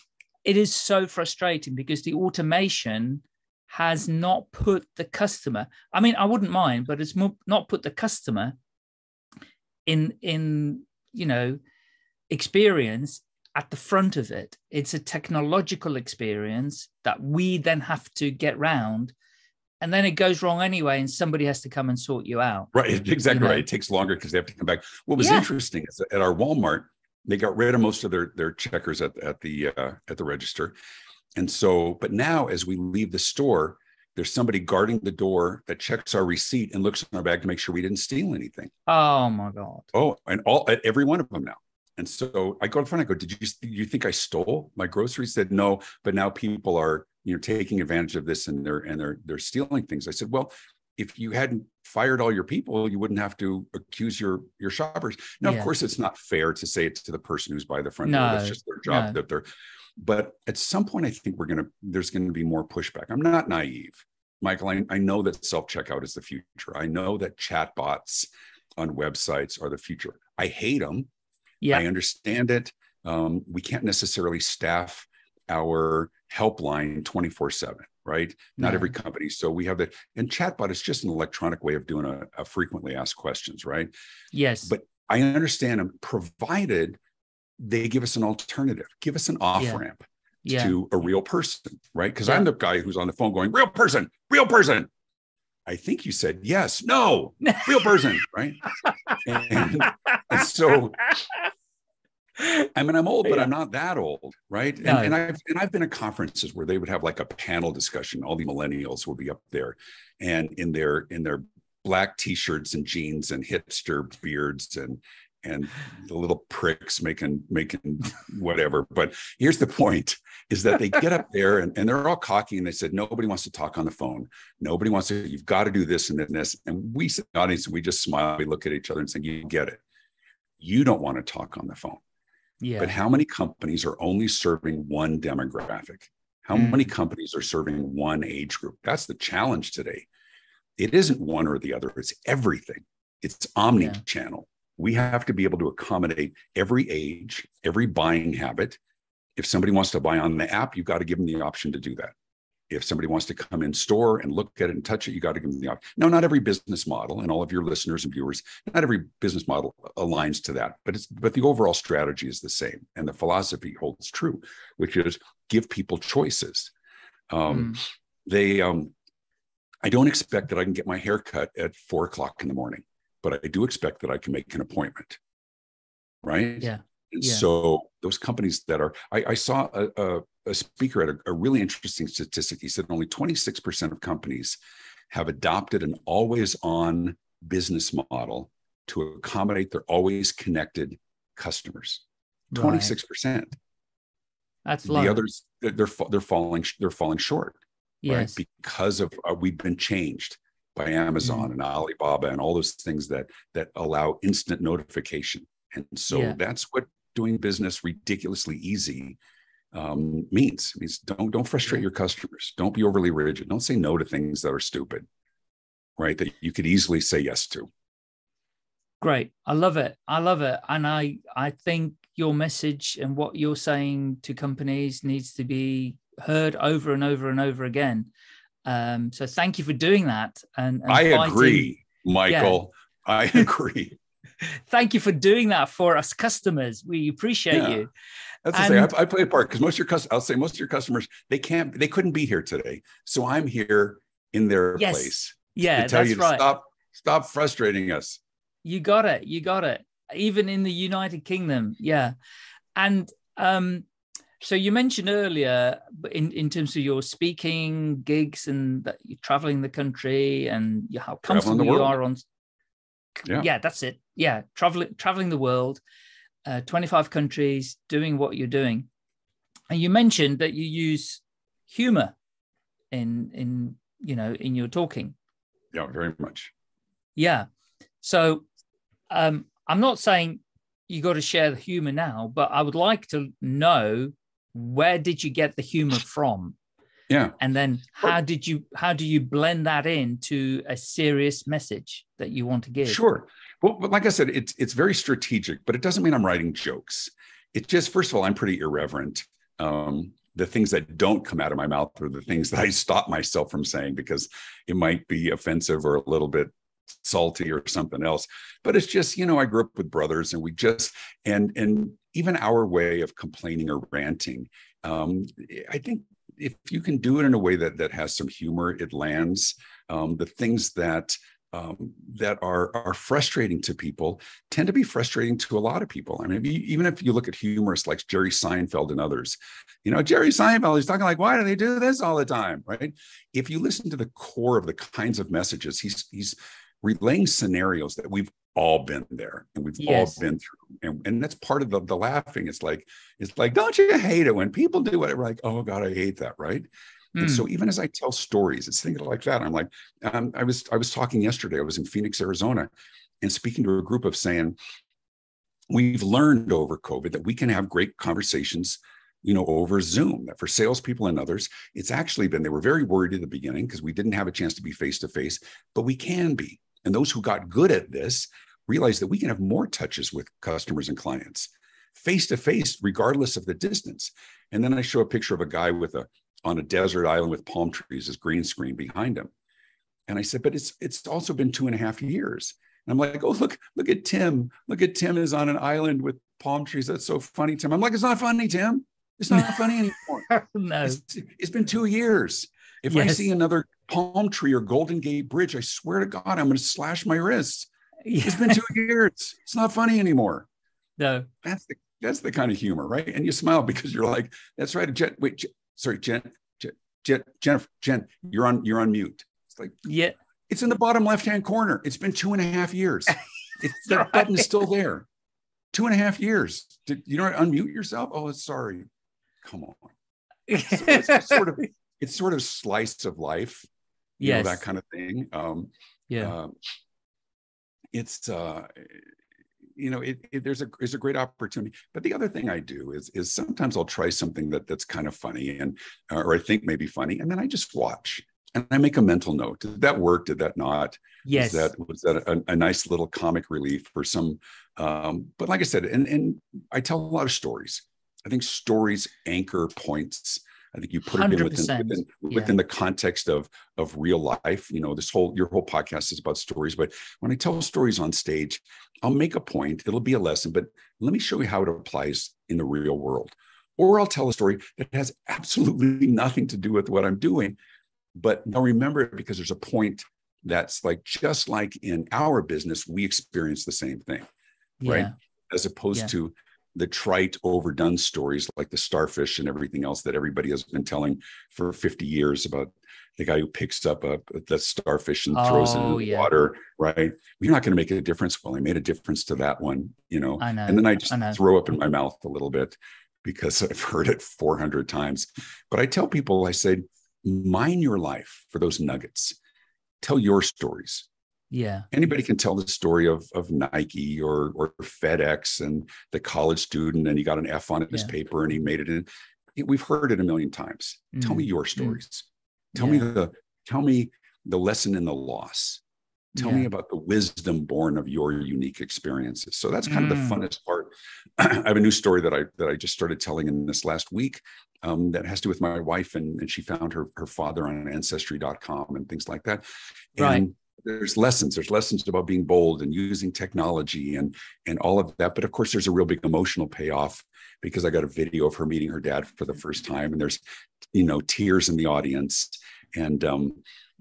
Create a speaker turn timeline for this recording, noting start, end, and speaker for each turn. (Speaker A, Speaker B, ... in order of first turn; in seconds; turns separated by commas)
Speaker A: 0.4-8.6, Speaker A: 9.8-11.6, Speaker A: 12.3-19.1, Speaker A: 19.8-22.7, Speaker B: 22.7-30.7, Speaker A: 23.2-23.6, Speaker A: 25.2-25.4, Speaker B: 31.3-38.7, Speaker A: 38.9-39.9, Speaker B: 39.9-59.4, Speaker A: 55.4-55.7, Speaker A: 58.0-59.2, Speaker B: 60.0-71.1, Speaker B: 71.7-83.9, Speaker A: 78.6-78.9, Speaker A: 84.3-84.7, Speaker B: 84.6-87.0, Speaker B: 87.6-94.9, Speaker A: 90.4-90.8, Speaker B: 95.7-98.6, Speaker B: 99.2-101.1, Speaker B: 102.7-129.8, Speaker A: 104.8-105.2, Speaker B: 130.6-132.0, Speaker A: 132.6-132.9, Speaker B: 132.8-140.1, Speaker A: 136.5-136.9, Speaker B: 140.8-148.8, Speaker B: 149.4-152.1, Speaker B: 152.7-166.7, Speaker B: 167.3-168.9, Speaker A: 167.5-167.8, Speaker B: 169.8-175.2, Speaker B: 176.2-184.6, Speaker A: 176.6-177.4, Speaker B: 185.1-193.6, Speaker A: 192.5-192.9, Speaker A: 194.7-195.2, Speaker B: 194.8-209.2, Speaker A: 198.0-198.3, Speaker A: 201.2-201.5, Speaker A: 206.1-206.4, Speaker B: 209.7-215.1, Speaker B: 216.0-217.7, Speaker A: 219.0-228.1, Speaker A: 228.6-231.7, Speaker B: 230.9-234.0, Speaker A: 232.3-232.6, Speaker A: 234.4-237.9, Speaker B: 237.5-237.9, Speaker B: 238.4-248.2, Speaker A: 238.5-238.9, Speaker A: 244.8-246.4, Speaker A: 248.6-252.1, Speaker A: 252.8-253.8, Speaker A: 254.4-262.2, Speaker B: 261.3-261.9, Speaker A: 263.2-265.8, Speaker A: 266.4-268.9, Speaker A: 269.7-272.1, Speaker A: 272.9-275.1, Speaker B: 275.7-276.5, Speaker A: 277.1-277.5, Speaker A: 278.0-278.4, Speaker A: 279.1-286.6, Speaker B: 287.1-287.4, Speaker A: 287.4-293.0, Speaker B: 292.8-354.6, Speaker A: 339.8-340.2, Speaker A: 347.1-347.4, Speaker B: 355.7-379.3, Speaker B: 380.1-390.3, Speaker A: 389.3-391.0, Speaker B: 390.8-397.7, Speaker A: 392.9-393.3, Speaker A: 398.1-398.7, Speaker B: 398.2-400.5, Speaker A: 401.0-401.3, Speaker B: 401.4-409.8, Speaker A: 409.8-410.1, Speaker B: 410.5-415.1, Speaker A: 413.9-414.4, Speaker B: 415.7-418.9, Speaker B: 419.4-419.9, Speaker A: 420.5-421.6, Speaker B: 420.6-423.7, Speaker A: 424.2-424.6, Speaker B: 424.2-426.5, Speaker A: 426.1-426.3, Speaker B: 427.9-429.1, Speaker B: 429.7-467.6, Speaker A: 441.2-441.7, Speaker A: 451.1-452.5, Speaker B: 468.1-474.3, Speaker A: 474.8-475.1, Speaker B: 474.8-499.4, Speaker A: 485.3-486.3, Speaker A: 490.4-491.4, Speaker B: 500.0-501.1, Speaker A: 501.5-501.9, Speaker B: 501.9-515.8, Speaker A: 511.1-512.0, Speaker A: 512.8-513.1, Speaker A: 516.4-516.7, Speaker B: 516.4-540.4, Speaker A: 519.9-520.4, Speaker A: 530.2-530.4, Speaker B: 540.9-543.6